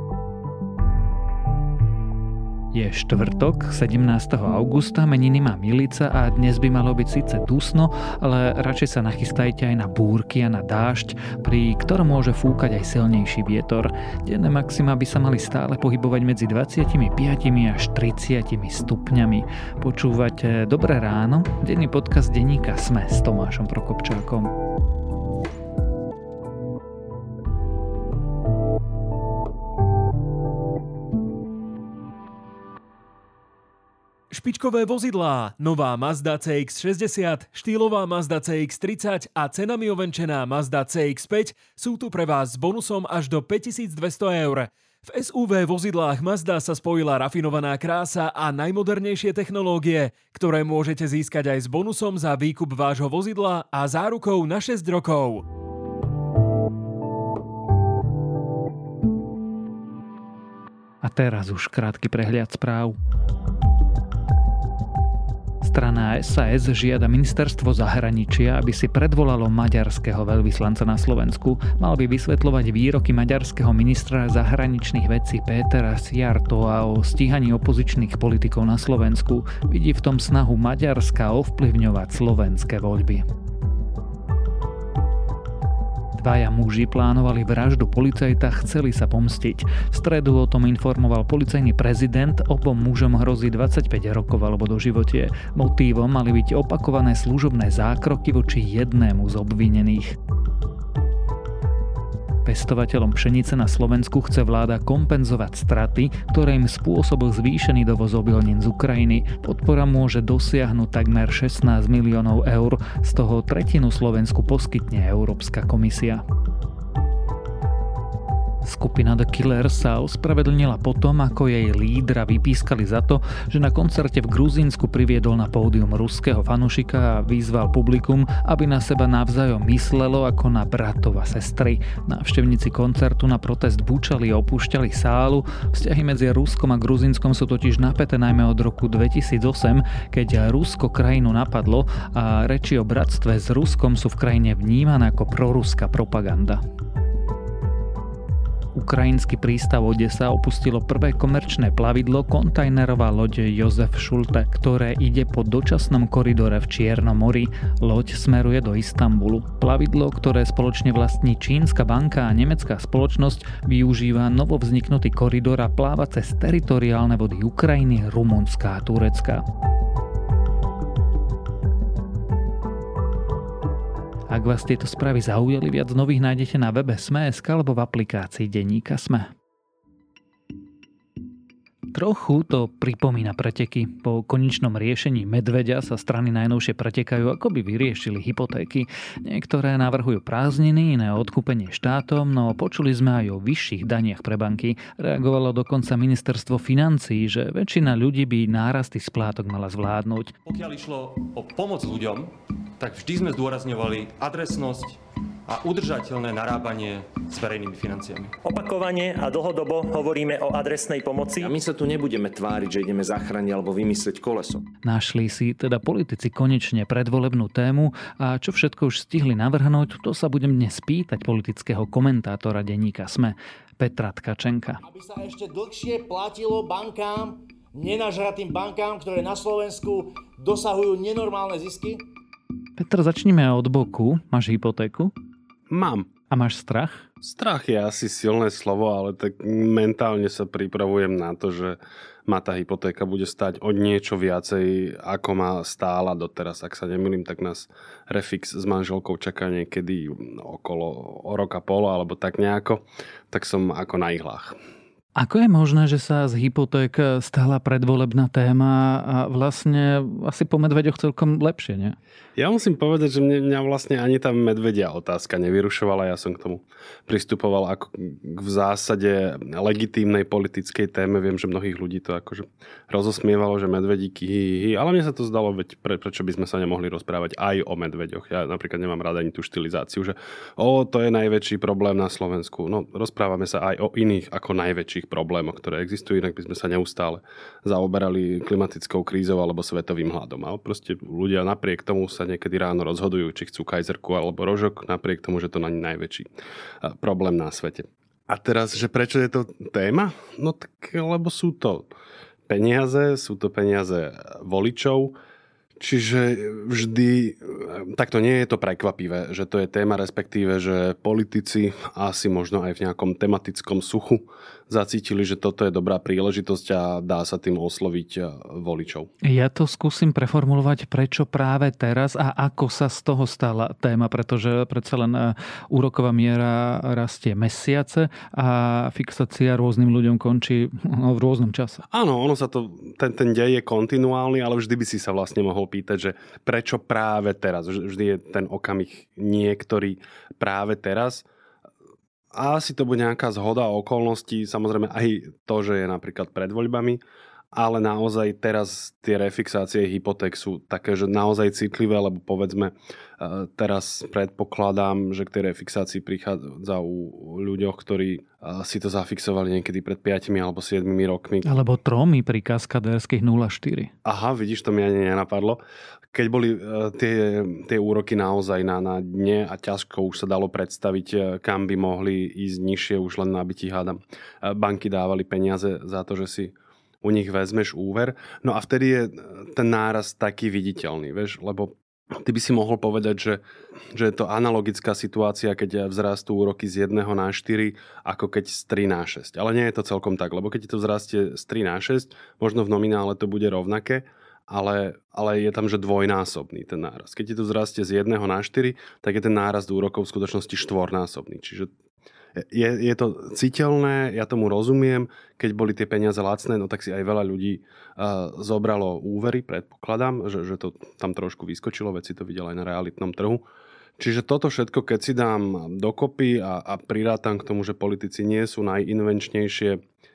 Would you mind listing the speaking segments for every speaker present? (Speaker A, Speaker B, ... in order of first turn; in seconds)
Speaker A: 2.7-24.5, 61.0-63.0, 65.6-83.2, 86.2-100.2, 102.4-116.2, 118.6-146.6, 148.7-169.4, 174.3-179.3, 181.9-200.3, 214.8-224.8, 232.8-235.1, 236.3-237.1, 255.2-261.9, 319.2-331.8, 361.4-363.9
Speaker B: 34.3-55.4
Speaker C: 200.4-208.3
Speaker D: 208.4-211.5
Speaker E: 211.4-214.6
Speaker F: 224.8-232.1
Speaker G: 235.7-236.1, 237.2-254.6, 262.4-296.3, 296.8-301.9, 302.5-305.1, 305.8-319.1, 331.9-341.2, 342.3-347.0, 347.5-361.5, 364.0-365.6, 366.1-383.4, 383.9-401.7, 402.4-413.4, 414.0-419.8